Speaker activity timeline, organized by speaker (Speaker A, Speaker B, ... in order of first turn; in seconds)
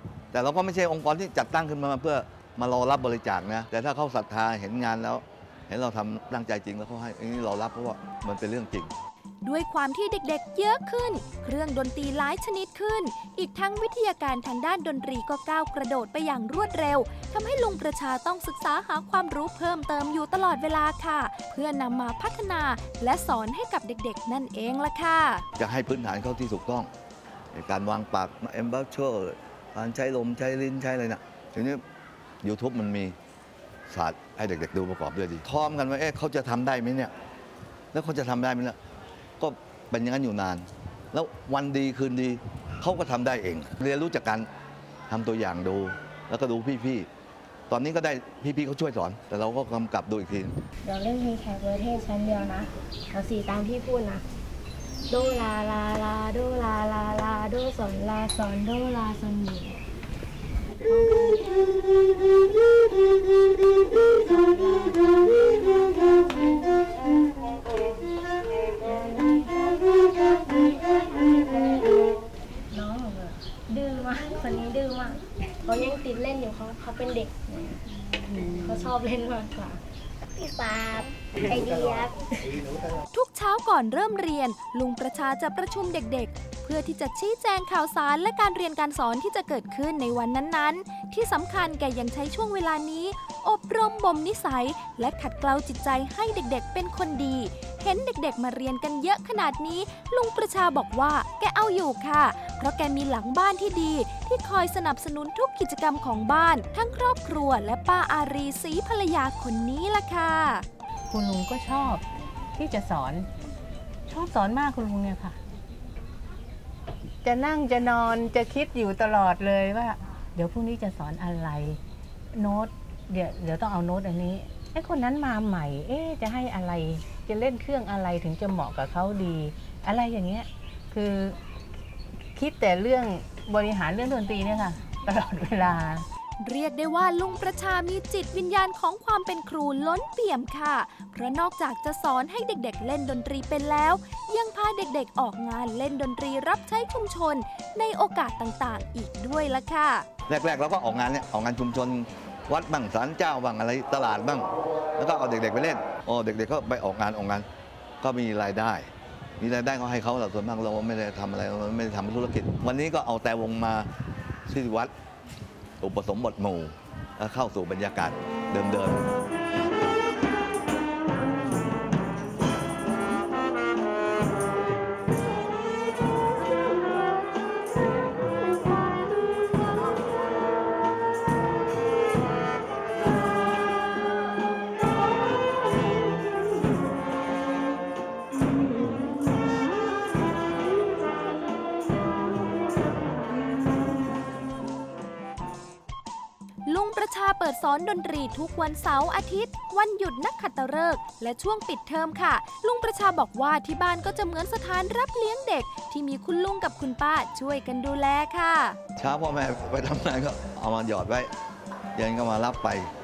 Speaker A: 0.3-8.9, 25.6-26.9, 27.5-31.8, 32.4-33.1, 33.9-37.1, 37.9-38.8, 39.4-44.5, 45.1-47.1, 47.7-50.5, 150.3-157.4, 158.0-158.9, 159.4-163.9, 164.5-164.9, 165.8-169.1, 209.0-211.3, 211.9-212.9
Speaker B: 9.4-25.4, 83.1-110.7, 136.4-150.1, 196.6-208.8
Speaker C: 50.8-54.2, 55.1-59.8, 60.8-61.7, 64.1-66.0, 68.8-72.0, 72.7-79.8, 80.4-82.6
Speaker D: 111.1-112.0, 112.6-113.2, 114.1-115.3, 117.2-121.8, 122.3-131.3, 132.3-136.0